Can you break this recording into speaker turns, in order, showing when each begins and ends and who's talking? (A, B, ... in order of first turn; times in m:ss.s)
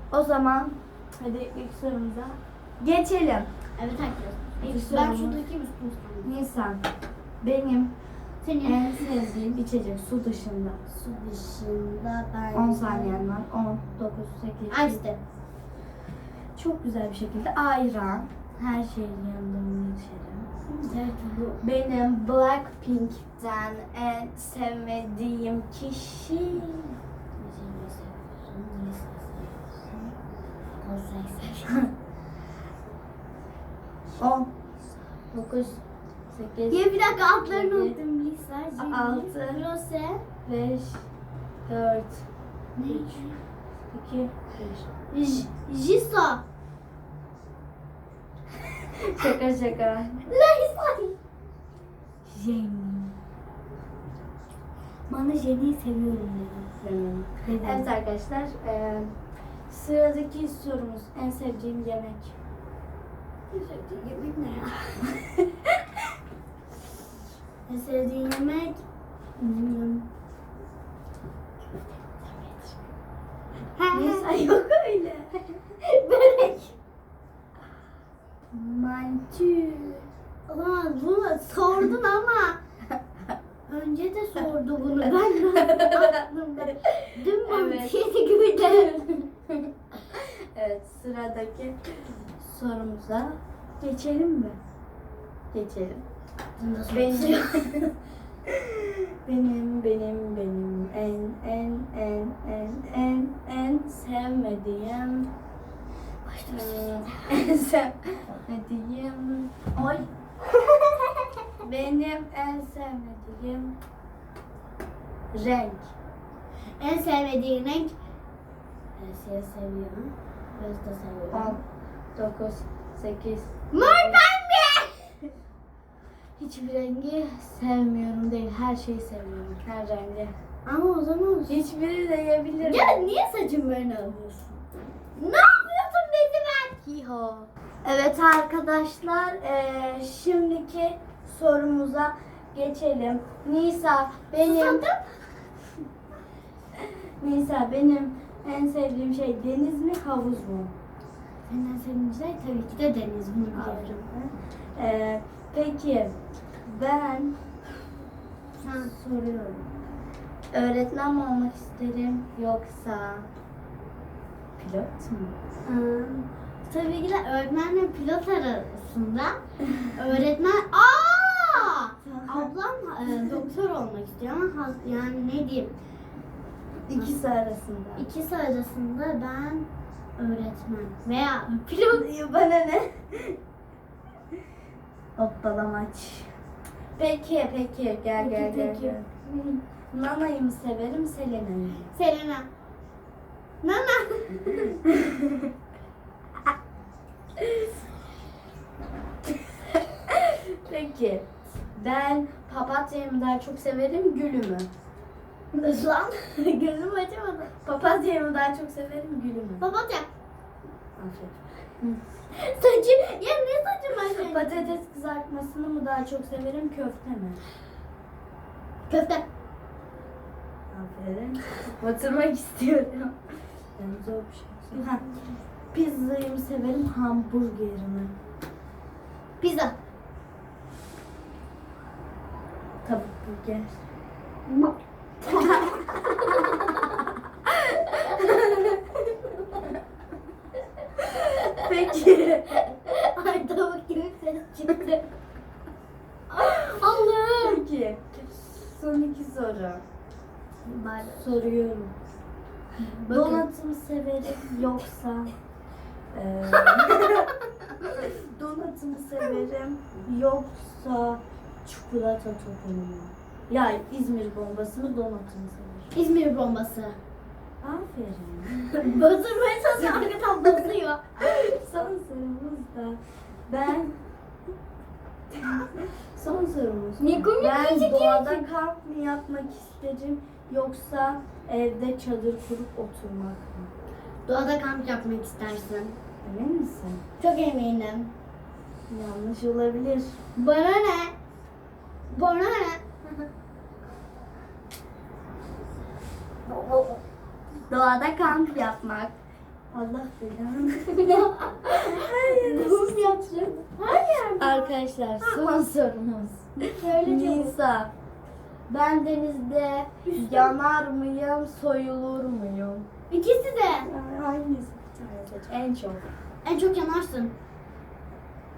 0:00.1-0:03.5 A
0:03.8-0:06.3 B
0:04.6-0:05.4 A
0:06.2-0:06.8 A
0:07.4-0:07.9 A
0:08.4-0:09.2 B
0:08.6-0:10.8 A
0:10.9-0:13.3 B
0:12.5-0:15.0 A
0:14.7-0:15.2 B
0:16.6-0:20.6 A
0:20.7-0:21.6 B
0:21.6-0:27.0 A
0:27.4-0:29.9 B
0:30.8-0:31.7 B
0:34.2-0:34.5 A
0:35.3-0:38.0 A
0:36.7-0:40.2 B
0:38.8-0:39.6 A
0:40.4-0:41.1 A
0:41.6-0:42.3 A
0:42.8-0:43.4 B
0:42.8-0:43.3 A
0:43.9-0:44.9 A
0:45.1-0:46.4 B
0:48.8-0:50.3 A
0:50.3-0:51.2 B
0:52.2-0:53.1 A
0:55.1-0:56.7 B
0:56.7-0:59.1 A
0:57.4-0:57.9 B
0:59.7-1:02.4 A
1:03.5-1:05.0 B
1:07.7-1:08.8 B
1:09.4-1:10.0 B
1:12.2-1:12.7 B
1:13.7-1:14.3 B
1:13.9-1:15.5 A
1:15.8-1:16.7 B
1:18.5-1:20.0 A
1:20.5-1:22.6 B
1:23.7-1:29.0 B
1:25.6-1:26.1 A
1:27.4-1:27.9 A
1:28.6-1:29.5 A
1:30.1-1:34.6 A
1:35.5-1:36.0 A
1:36.6-1:37.7 B
1:36.9-1:37.9 A
1:39.2-1:45.3 A
1:46.2-1:47.2 B
1:46.5-1:49.8 A
1:49.8-1:51.3 B
1:51.6-1:53.7 A
1:55.3-1:55.9 A
1:56.8-1:57.9 B
1:59.0-2:01.6 B
2:01.3-2:01.6 A
2:02.1-2:04.2 A
2:03.7-2:05.2 B
2:06.4-2:09.6 B
2:09.6-2:10.3 A
2:10.6-2:11.6 B
2:11.5-2:13.1 A
2:12.6-2:14.6 B
2:15.2-2:16.9 B
2:16.8-2:24.8 A
2:24.4-2:25.1 B
2:27.2-2:30.7 A
2:31.5-2:34.0 B
2:33.5-2:37.4 A
2:38.6-2:38.9 B
2:38.8-2:39.7 A
2:40.5-2:43.3 A
2:44.6-2:45.3 A
2:45.6-2:55.7 B
2:52.0-2:52.5 A
2:53.1-2:53.5 A
2:56.9-2:58.1 A
2:58.0-3:02.0 B
3:01.9-3:03.4 A
3:05.2-3:06.3 A
3:07.0-3:11.9 A
3:08.1-3:09.0 B
3:11.9-3:12.5 B
3:13.6-3:14.8 B
3:14.9-3:15.4 A
3:20.1-3:24.7 A
3:25.5-3:27.5 B
3:27.6-3:29.7 A
3:29.6-3:30.1 B
3:31.0-3:32.0 A
3:32.3-3:34.7 B
3:34.2-3:37.4 A
3:38.9-3:39.2 B
3:40.7-3:43.1 A
3:43.8-3:45.0 A
3:44.7-3:45.4 B
3:45.7-3:48.1 A
3:49.4-3:49.7 B
3:52.8-3:53.8 A
3:55.2-3:56.7 B
3:55.3-3:55.8 A
3:57.9-3:59.3 B
3:58.0-3:58.6 A
4:01.0-4:01.9 B
4:01.5-4:02.6 A
4:02.5-4:05.0 B
4:06.3-4:07.6 B
4:06.4-4:09.8 A
4:10.6-4:11.5 B
4:11.2-4:11.9 A
4:12.8-4:13.4 B
4:13.1-4:15.3 A
4:16.1-4:17.3 A
4:16.5-4:17.1 B
4:17.8-4:25.9 A
4:25.9-4:27.0 B
4:27.6-4:29.0 A
4:28.8-4:31.1 B
4:31.2-4:33.9 A
4:35.4-4:43.7 A
4:37.0-4:38.5 B
4:44.2-4:46.0 B
4:46.2-4:47.0 A
4:47.2-4:48.1 B
4:48.9-4:50.2 A
4:50.4-4:51.1 B
4:52.1-4:53.0 B
4:56.5-4:57.0 B
4:57.7-4:59.2 A
4:59.7-5:03.5 A
5:00.9-5:05.4 B
5:04.4-5:07.9 A
5:06.6-5:07.5 B
5:08.7-5:12.8 A
5:10.1-5:10.6 B
5:13.1-5:13.9 B
5:13.8-5:16.0 A
5:16.4-5:17.3 B